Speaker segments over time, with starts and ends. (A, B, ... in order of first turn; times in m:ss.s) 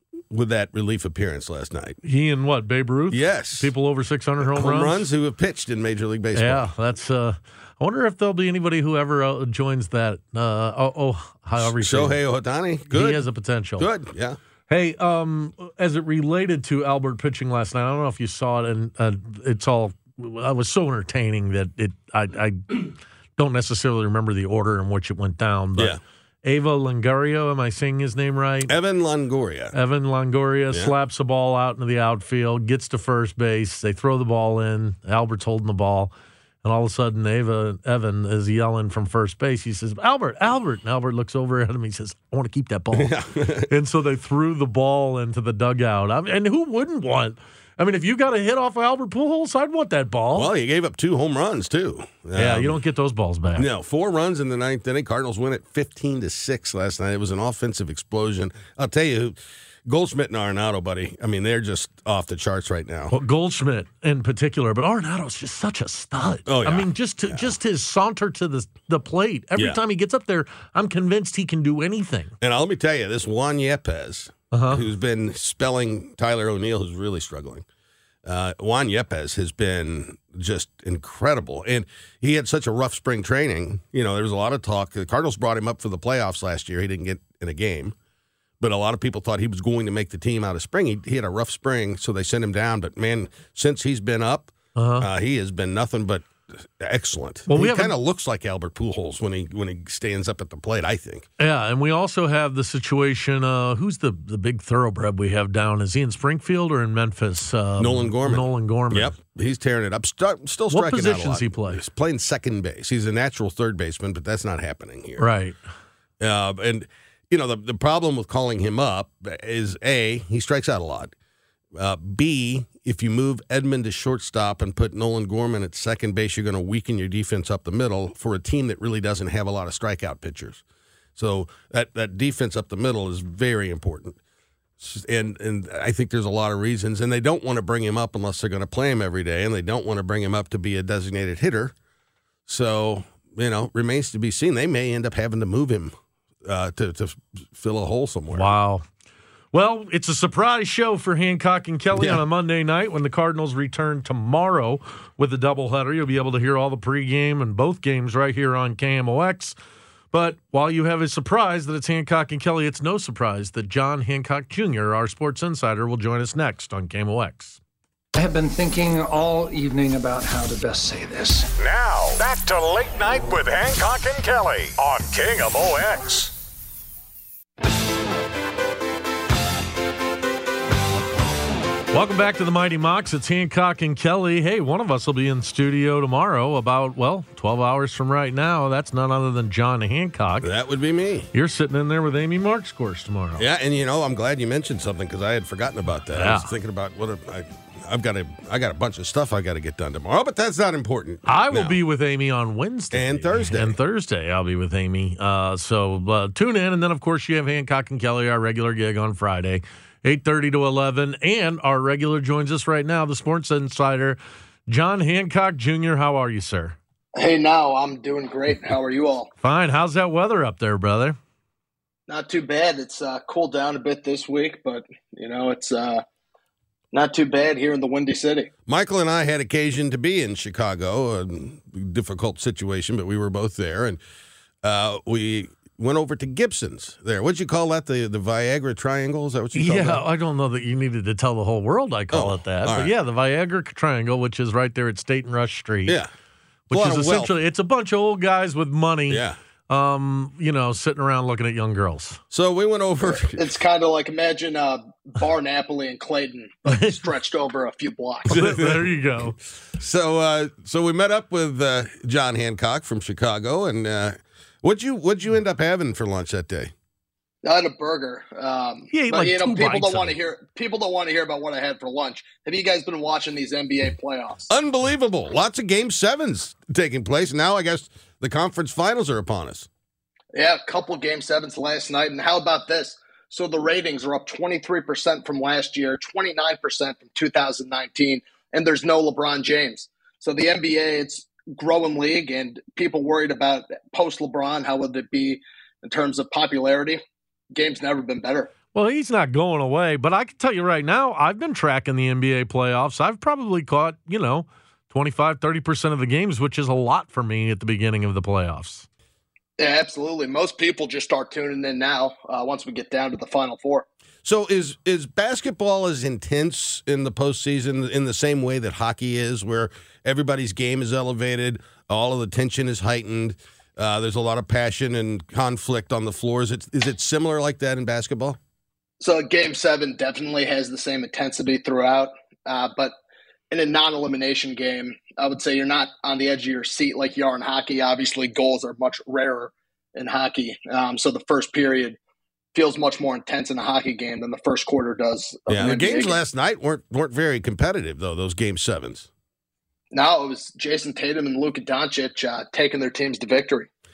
0:00.3-0:02.0 A
0:02.0-0:05.0 B
0:03.1-0:03.7 A
0:04.4-0:06.7 A
0:06.4-0:12.2 B
0:11.6-0:13.2 A
0:12.9-0:13.9 B
0:13.8-0:14.4 A
0:14.7-0:28.8 B
0:28.7-0:29.7 A
0:29.7-0:36.1 B
0:36.6-0:50.5 B
0:42.9-0:43.7 A
0:50.3-0:52.8 A
0:52.4-0:53.7 B
0:53.6-1:03.1 A
1:03.1-1:12.3 B
1:06.5-1:07.5 A
1:12.4-1:17.7 A
1:14.5-1:14.8 B
1:18.2-1:28.0 A
1:28.6-1:41.3 A
1:34.8-1:35.1 B
1:37.5-1:38.0 B
1:41.4-1:49.1 B
1:47.8-1:55.3 A
1:50.7-1:51.8 B
1:55.2-1:55.6 B
1:56.2-2:01.1 A
2:01.7-2:10.6 A
2:11.2-2:14.2 A
2:14.8-2:21.7 A
2:22.5-2:28.5 A
2:28.3-2:28.8 B
2:29.5-2:39.6 B
2:31.9-2:32.2 A
2:40.1-2:47.6 B
2:48.2-2:51.5 C
2:51.6-2:56.3 D
3:01.9-3:10.5 B
3:10.4-3:11.3 A
3:11.3-3:13.4 B
3:13.4-3:21.8 A
3:16.1-3:16.5 B
3:21.3-3:36.8 B
3:22.9-3:23.8 A
3:37.2-3:39.3 E
3:39.4-3:41.2 B
3:42.1-3:46.0 E
3:46.9-3:48.5 E
3:48.7-3:54.0 A
3:54.6-4:00.0 A
3:59.5-4:06.0 B
4:02.1-4:02.9 A
4:06.7-4:12.2 B
4:06.7-4:07.3 A
4:09.1-4:09.4 A
4:12.3-4:13.5 A
4:13.3-4:18.3 E
4:16.7-4:17.0 B
4:18.3-4:19.4 B
4:18.3-4:18.9 A
4:19.8-4:26.7 A
4:27.4-4:34.5 E
4:28.9-4:30.1 B
4:34.5-4:39.7 A
4:40.3-4:57.0 E
4:57.6-4:58.5 E
4:58.7-5:08.9 B
5:09.6-5:13.9 E
5:14.2-5:28.4 A
5:29.0-5:32.9 E
5:33.5-5:42.0 E
5:42.5-5:46.2 E
5:45.5-5:49.1 A
5:49.9-5:53.7 E